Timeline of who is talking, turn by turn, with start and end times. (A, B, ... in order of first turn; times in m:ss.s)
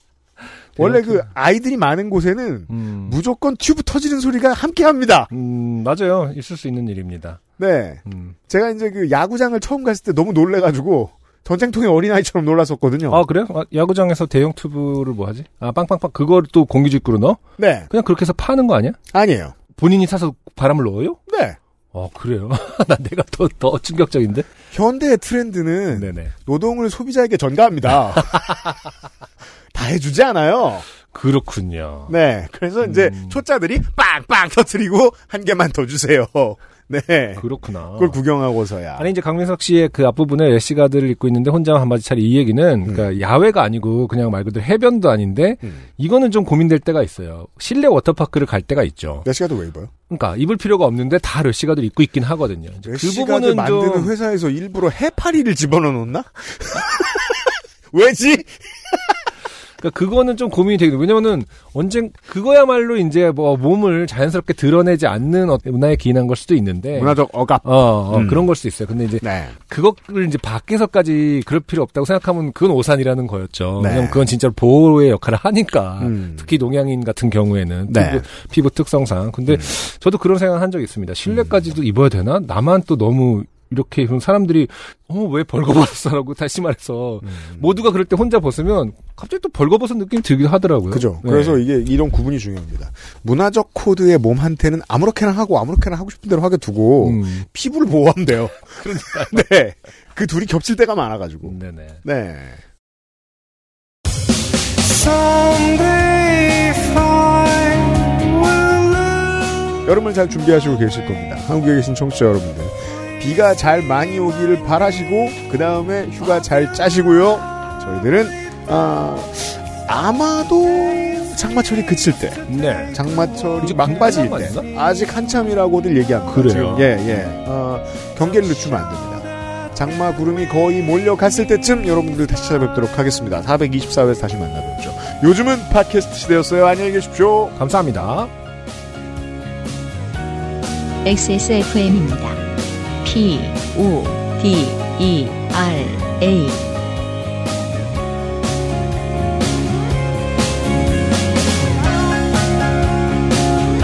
0:00.8-0:01.3 A
0:00.8-0:05.3 B
0:02.7-0:03.2 A
0:05.3-0:07.4 A
0:07.6-0:13.2 B
0:08.0-0:08.3 A
0:13.1-0:19.0 A
0:17.6-0:17.9 B
0:19.1-0:19.5 B
0:19.7-0:21.2 A
0:21.3-0:21.6 B
0:21.9-0:24.5 A
0:24.7-0:28.6 B
0:25.9-0:26.3 A
0:28.2-0:28.7 A
0:29.7-0:30.8 B
0:31.1-0:32.1 A
0:32.1-0:39.1 B
0:32.8-0:33.4 A
0:37.4-0:38.2 A
0:39.0-0:49.2 A
0:49.2-0:49.9 B
0:50.1-0:54.1 A
0:52.8-0:59.1 B
0:59.8-1:31.6 A
1:06.9-1:08.5 B
1:09.2-1:09.5 B
1:13.8-1:14.2 B
1:16.0-1:16.5 B
1:17.9-1:18.2 B
1:27.3-1:27.7 B
1:30.9-1:42.6 B
1:37.0-1:37.5 A
1:38.7-1:39.5 A
1:41.4-1:42.0 A
1:44.8-1:49.2 A
1:49.8-2:17.6 B
2:02.5-2:04.7 A
2:06.2-2:07.1 A
2:17.6-2:18.3 A
2:21.0-2:22.4 C
2:23.0-2:26.8 C